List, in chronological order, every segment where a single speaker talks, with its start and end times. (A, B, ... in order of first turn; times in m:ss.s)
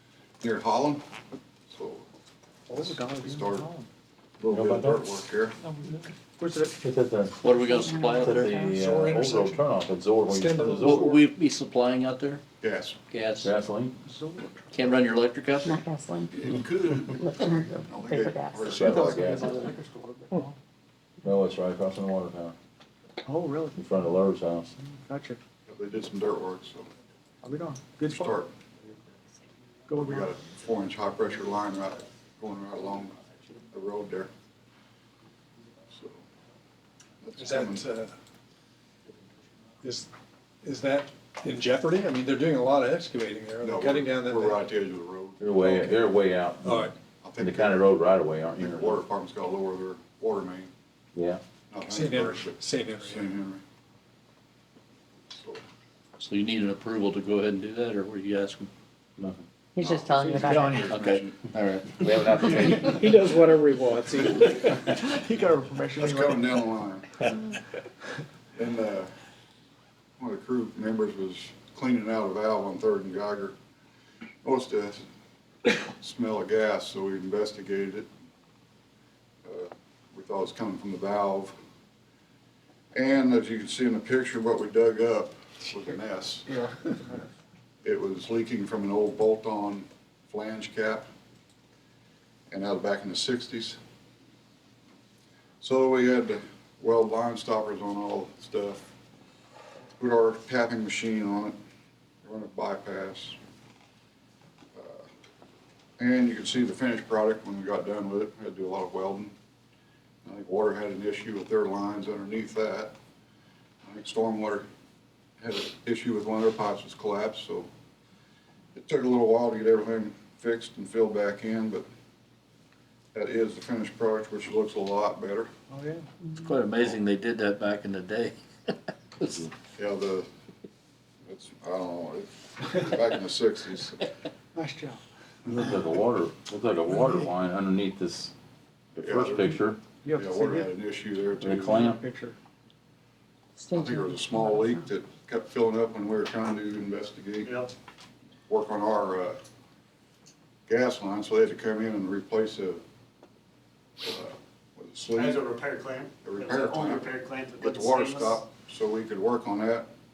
0:00.4-0:01.0 A
0:01.7-0:02.0 A
0:02.7-0:03.9 B
0:02.7-0:03.7 A
0:04.4-0:05.6 A
0:04.5-0:05.0 C
0:06.4-0:06.8 B
0:06.8-0:07.4 C
0:07.4-0:08.5 D
0:07.6-0:08.8 E
0:08.2-0:11.1 C
0:08.7-0:09.6 F
0:10.3-0:11.2 F
0:10.8-0:12.4 D
0:12.6-0:13.0 A
0:13.1-0:13.5 D
0:13.4-0:14.0 C
0:14.0-0:14.7 B
0:14.7-0:15.8 D
0:15.6-0:16.4 E
0:16.3-0:19.7 A
0:17.2-0:19.1 E
0:18.7-0:19.6 C
0:18.9-0:20.5 B
0:21.2-0:22.6 C
0:23.2-0:23.8 B
0:23.8-0:24.7 C
0:25.0-0:25.4 B
0:25.7-0:26.9 A
0:27.4-0:28.4 B
0:28.0-0:28.5 A
0:29.9-0:30.3 B
0:30.0-0:34.3 A
0:35.9-0:36.2 A
0:37.2-0:37.9 A
0:37.4-0:38.1 F
0:39.8-0:40.1 F
0:40.6-0:44.6 F
0:43.6-0:46.0 A
0:45.4-0:49.0 C
0:46.6-0:46.9 F
0:47.2-0:47.9 A
0:48.6-0:50.7 A
0:51.2-0:51.4 C
0:51.7-0:53.6 A
0:51.9-0:53.3 F
0:55.4-0:55.6 A
0:56.2-0:58.7 D
0:59.8-1:01.1 E
0:59.8-1:01.4 A
1:00.4-1:00.9 B
1:00.9-1:02.8 D
1:02.0-1:03.1 C
1:02.7-1:06.4 B
1:06.0-1:07.6 A
1:08.6-1:09.1 A
1:10.2-1:13.6 A
1:14.4-1:15.0 A
1:15.8-1:18.1 A
1:19.4-1:21.5 A
1:22.9-1:26.5 A
1:27.8-1:31.0 A
1:32.5-1:33.8 A
1:35.6-1:38.9 A
1:40.0-1:41.6 A
1:42.2-1:43.4 A
1:44.8-1:45.1 A
1:46.0-1:49.3 A
1:50.2-1:52.9 A
1:53.8-1:54.7 A
1:55.4-1:57.7 A
1:58.8-2:01.8 A
2:03.1-2:05.5 A
2:05.7-2:06.1 B
2:06.4-2:09.5 D
2:09.8-2:10.3 A
2:11.3-2:14.0 A
2:14.6-2:15.0 B
2:15.5-2:18.3 C
2:19.0-2:19.6 A
2:19.0-2:19.8 C
2:20.0-2:20.7 B
2:20.1-2:22.0 A
2:21.4-2:22.0 C
2:21.6-2:22.4 B
2:23.6-2:24.8 E
2:23.7-2:27.6 A
2:27.4-2:27.7 G
2:28.5-2:29.4 A
2:30.7-2:32.8 A
2:34.0-2:35.5 A
2:35.2-2:38.4 G
2:36.2-2:39.9 A